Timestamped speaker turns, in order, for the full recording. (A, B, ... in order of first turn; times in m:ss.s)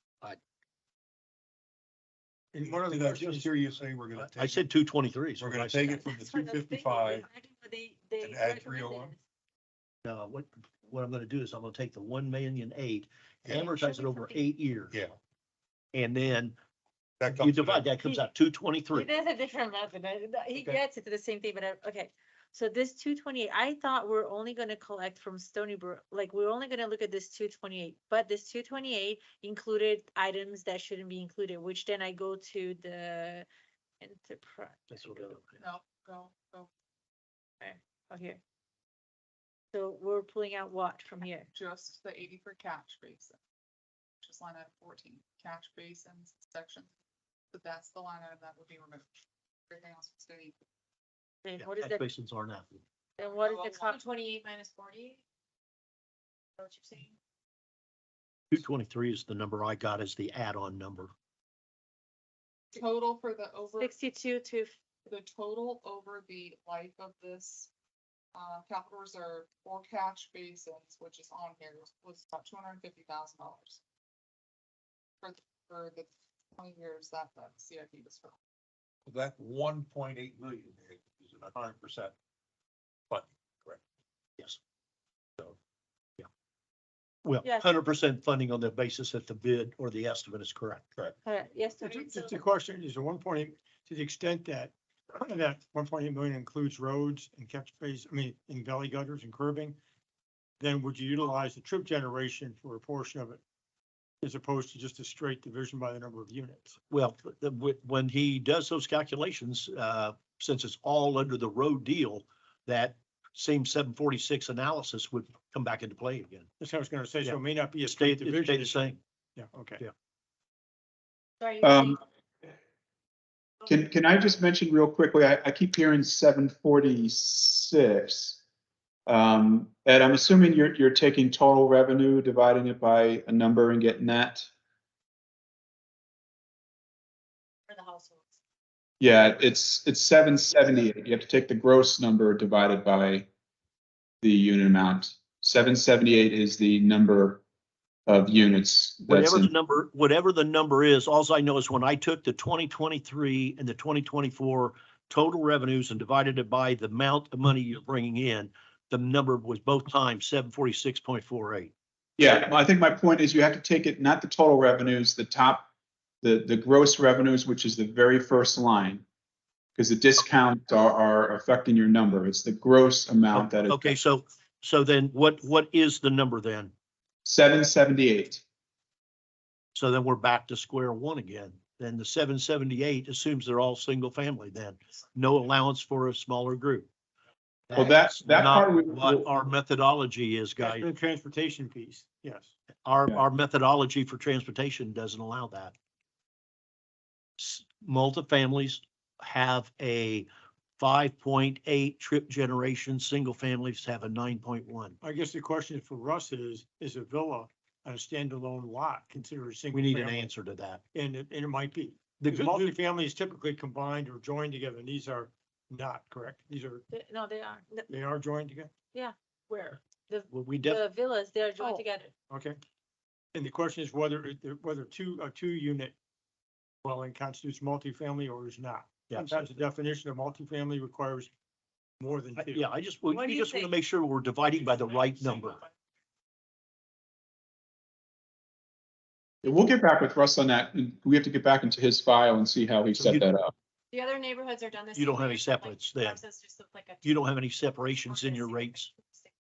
0:02.5-0:03.6 A
0:02.6-0:04.7 B
0:04.2-0:06.0 C
0:05.4-0:07.3 B
0:05.8-0:09.2 D
0:08.2-0:09.1 B
0:10.0-0:15.0 C
0:13.4-0:13.8 B
0:13.7-0:14.4 D
0:15.9-0:16.6 C
0:17.2-0:17.9 B
0:17.3-0:19.1 C
0:18.9-0:33.5 D
0:34.0-0:35.3 D
0:34.9-0:35.6 C
0:35.6-0:36.7 E
0:37.6-0:38.4 D
0:39.7-0:41.5 D
0:41.5-0:43.4 E
0:44.2-0:46.9 E
0:47.5-0:49.1 E
0:49.7-0:50.6 E
0:51.4-0:52.0 D
0:51.6-0:52.8 C
0:53.2-0:54.0 D
0:53.4-0:53.8 E
0:53.9-0:55.2 F
0:56.6-0:57.1 F
0:58.5-1:01.1 C
1:02.7-1:03.9 E
1:03.8-1:04.7 D
1:05.1-1:07.7 E
1:08.3-1:13.8 E
1:15.2-1:18.4 E
1:19.1-1:22.1 B
1:23.1-1:23.8 B
1:27.2-1:30.9 C
1:31.2-1:32.4 D
1:31.8-1:39.8 A
1:40.6-1:43.4 A
1:44.2-1:46.8 A
1:46.9-1:56.5 C
1:56.6-1:59.8 A
1:57.2-1:59.0 C
2:01.6-2:02.0 G
2:03.7-2:08.4 G
2:09.1-2:14.5 G
2:19.0-2:23.3 G
2:24.2-2:27.4 G
2:28.1-2:29.5 G
2:29.1-2:41.7 C
2:42.2-2:45.7 G
2:46.2-2:49.0 G
2:49.8-2:54.0 G
2:53.3-2:56.7 C
2:57.2-2:58.4 G
2:59.8-3:06.9 C
3:07.7-3:10.9 C
3:07.8-3:09.3 G
3:10.6-3:12.5 A
3:12.8-3:15.7 C
3:17.4-3:25.0 C
3:25.0-3:30.3 A
3:29.7-3:30.8 C
3:30.9-3:36.8 A
3:32.2-3:32.7 C
3:36.9-3:37.9 D
3:37.9-3:38.7 A
3:38.9-3:42.1 D
3:40.3-3:40.8 C
3:42.3-3:42.6 A
3:43.3-3:45.9 A
3:46.8-3:51.3 A
3:49.1-3:49.4 C
3:52.0-3:52.7 A
3:52.4-3:55.6 C
3:53.1-3:53.7 D
3:59.4-4:03.5 G
4:02.9-4:03.3 C
4:03.9-4:07.0 F
4:05.0-4:06.2 C
4:07.0-4:08.9 C
4:08.0-4:09.2 F